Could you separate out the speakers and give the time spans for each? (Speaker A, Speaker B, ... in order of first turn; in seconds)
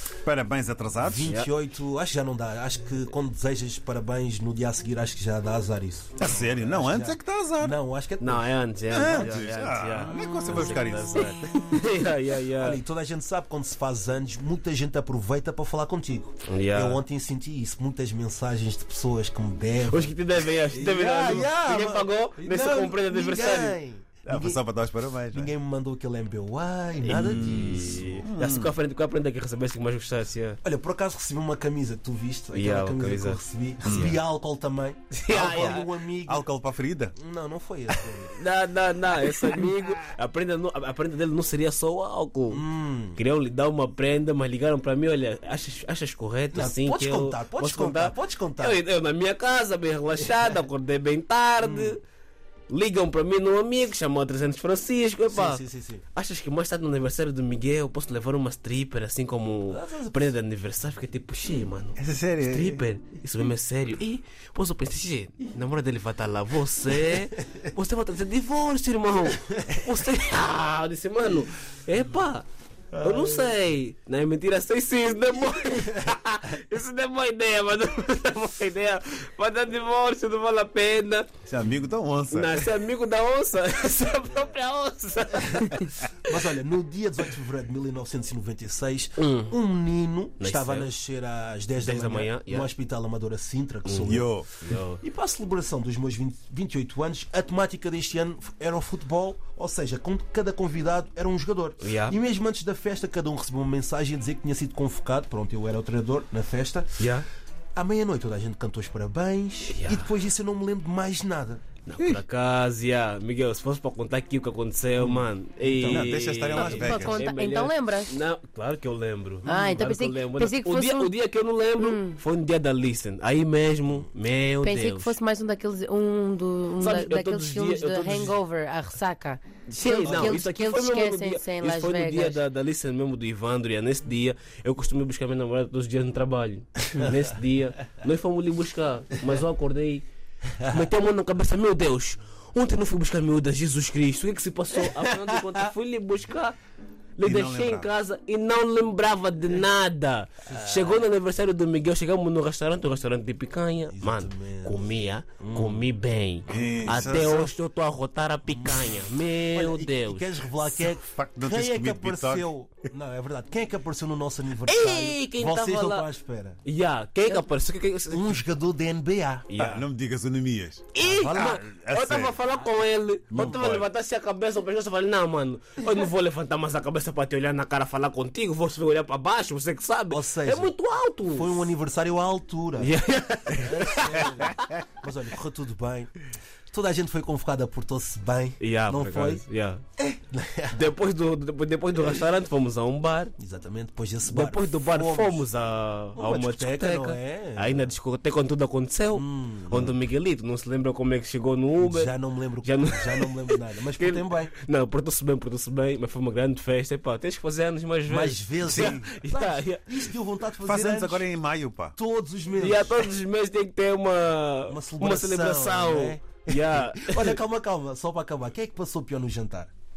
Speaker A: 0.2-1.4, 6.2-7.8, 8.9-11.5, 24.3-25.5, 27.2-28.7, 33.9-34.1, 36.3-37.1, 62.0-62.8, 81.5-82.7, 94.1-94.5, 115.9-117.2, 147.2-147.9, 156.5-157.5, 160.8-162.5, 169.6-172.4, 173.3-173.9, 208.7-209.1, 210.6-212.0
Speaker B: 1.0-9.4, 10.1-11.9, 12.6-24.6, 25.3-28.1, 30.6-36.5, 37.2-38.4, 42.5-43.2, 46.5-48.8, 51.6-52.0, 55.3-56.0, 59.7-60.3, 69.5-69.8, 73.0-73.5, 85.4-85.7, 86.3-94.4, 95.0-106.9, 107.8-111.6, 115.0-116.1, 119.4-119.8, 130.0-130.4, 150.5-151.0, 153.9-155.9, 156.5-157.5, 158.5-166.6, 168.1-169.5, 171.0-171.6, 180.1-180.7, 181.3-182.9, 183.5-186.2, 186.7-189.4, 190.0-190.9, 193.4-195.5, 196.2-197.9, 199.2-199.9, 201.8-204.5, 208.1-211.3, 212.0-213.0, 214.7-219.7
Speaker C: 8.2-12.8, 16.5-17.0, 19.9-23.8, 27.0-30.6, 32.5-34.2, 35.1-35.9, 38.3-52.0, 52.7-81.3, 82.3-86.0, 89.2-89.6, 90.4-90.9, 91.8-92.7, 93.9-95.0, 101.8-102.2, 107.0-107.2, 109.7-110.1, 111.9-125.2, 126.8-128.4, 129.7-140.1, 140.6-146.6, 147.2-160.3, 164.6-166.1, 166.7-168.4, 169.5-169.9, 170.9-181.7, 182.8-184.5, 188.6-189.8, 190.7-193.3, 194.2-209.9, 212.6-217.4
Speaker D: 116.5-118.1, 119.5-121.1, 121.8-122.2, 124.6-132.4